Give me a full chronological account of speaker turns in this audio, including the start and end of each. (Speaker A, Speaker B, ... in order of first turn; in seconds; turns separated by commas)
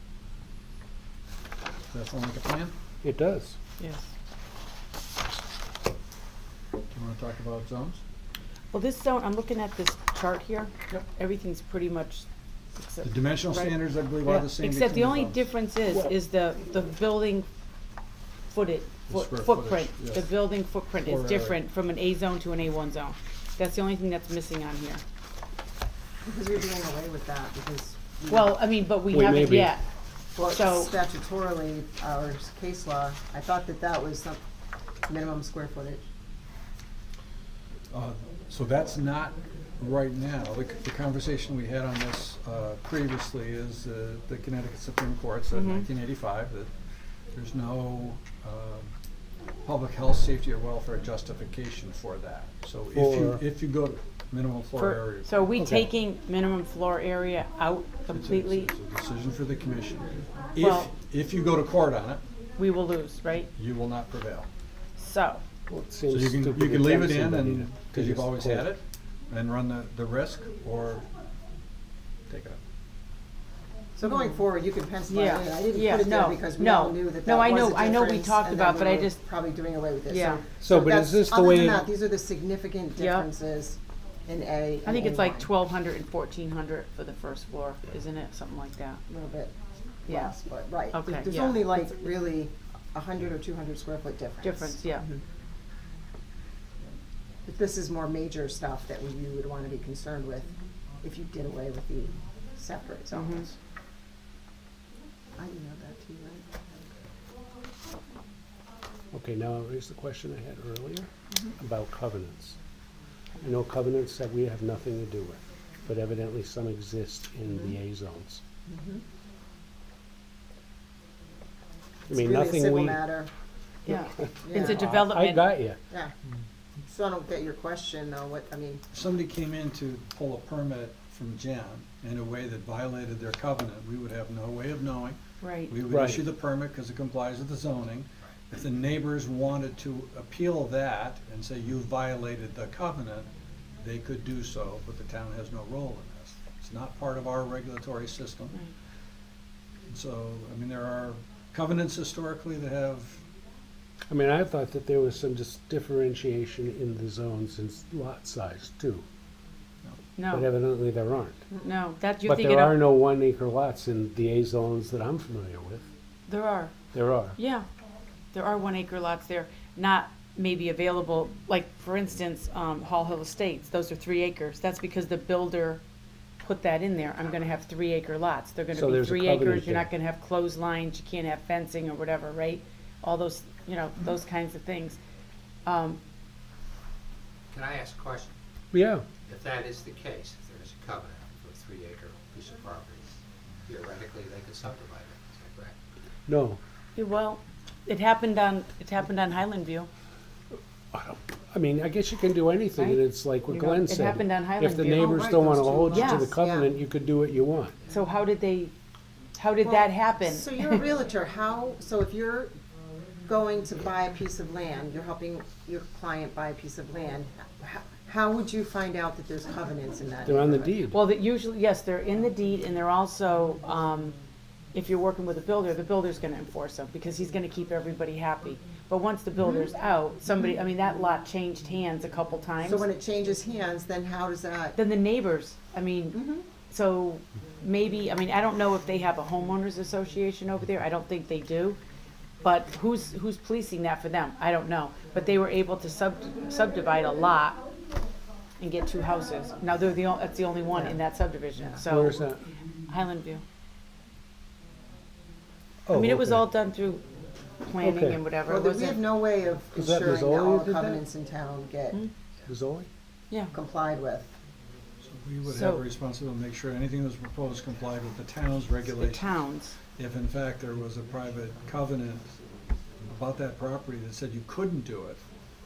Speaker A: 1.9-2.7, Speaker B: 3.0-3.6, Speaker C: 3.8-4.1, Speaker A: 6.9-8.0, Speaker C: 8.7-17.5, Speaker A: 13.0-15.5, Speaker C: 18.5-25.0, Speaker A: 19.1-20.4, Speaker A: 21.0-21.6, Speaker D: 26.2-28.6, Speaker C: 28.3-29.8, Speaker B: 29.1-29.8, Speaker D: 30.4-34.4, Speaker C: 30.4-30.9, Speaker D: 35.0-36.0, Speaker A: 37.9-46.7, Speaker C: 45.5-45.9, Speaker A: 47.3-48.9, Speaker A: 49.6-55.7, Speaker B: 52.9-53.4, Speaker C: 54.8-58.7, Speaker B: 55.6-55.9, Speaker A: 58.1-62.2, Speaker C: 60.6-60.9, Speaker C: 62.6-63.5, Speaker A: 63.5-64.5, Speaker C: 65.0-65.4, Speaker B: 65.7-68.7, Speaker A: 66.1-71.0, Speaker A: 72.3-72.6, Speaker D: 74.0-85.5, Speaker C: 75.1-79.2, Speaker C: 80.1-80.4, Speaker B: 80.6-81.9, Speaker C: 83.0-83.2, Speaker C: 84.8-89.0, Speaker D: 89.1-89.5, Speaker D: 90.0-95.2, Speaker C: 90.9-91.7, Speaker C: 94.4-95.0, Speaker D: 97.4-103.5, Speaker C: 103.1-103.5, Speaker D: 105.3-106.5, Speaker B: 109.1-112.5, Speaker B: 113.4-118.4, Speaker D: 117.5-117.8, Speaker D: 118.7-119.0, Speaker B: 122.1-123.0, Speaker D: 122.1-123.3, Speaker C: 123.8-125.5, Speaker D: 123.9-124.9, Speaker B: 124.7-125.8, Speaker D: 126.8-128.8, Speaker A: 128.9-148.6, Speaker C: 135.4-135.7, Speaker B: 135.9-136.2, Speaker A: 149.9-153.2, Speaker B: 154.1-159.0, Speaker C: 160.2-160.5, Speaker B: 160.3-161.4, Speaker C: 161.6-162.8, Speaker B: 162.2-165.8, Speaker C: 166.3-166.8, Speaker B: 166.9-167.3, Speaker C: 167.3-167.7, Speaker C: 168.3-175.8, Speaker C: 176.4-185.0, Speaker B: 178.7-179.9, Speaker C: 185.7-186.0, Speaker E: 187.5-188.3, Speaker B: 188.7-189.0, Speaker E: 189.2-195.8, Speaker B: 196.3-196.6, Speaker C: 196.9-199.9, Speaker B: 200.9-207.8, Speaker C: 202.8-205.2, Speaker D: 204.9-206.7, Speaker C: 205.9-206.3, Speaker C: 207.9-208.7, Speaker C: 209.4-210.8, Speaker D: 209.6-212.5, Speaker D: 213.2-220.7, Speaker B: 220.2-221.0, Speaker C: 220.9-224.2, Speaker C: 224.7-232.8, Speaker D: 229.3-229.7, Speaker D: 232.6-234.8, Speaker C: 234.8-241.8, Speaker D: 236.1-236.5, Speaker C: 242.4-247.6, Speaker C: 248.6-252.2, Speaker D: 250.7-251.0, Speaker B: 251.8-252.4, Speaker C: 252.9-253.4, Speaker B: 255.8-256.4, Speaker C: 255.9-257.1, Speaker C: 257.6-259.0, Speaker B: 257.8-258.2, Speaker D: 258.4-262.0, Speaker B: 259.7-261.0, Speaker B: 262.5-262.9, Speaker D: 263.5-264.3, Speaker A: 265.0-269.4, Speaker C: 265.4-265.8, Speaker C: 268.9-269.8, Speaker A: 269.9-272.3, Speaker A: 273.0-275.2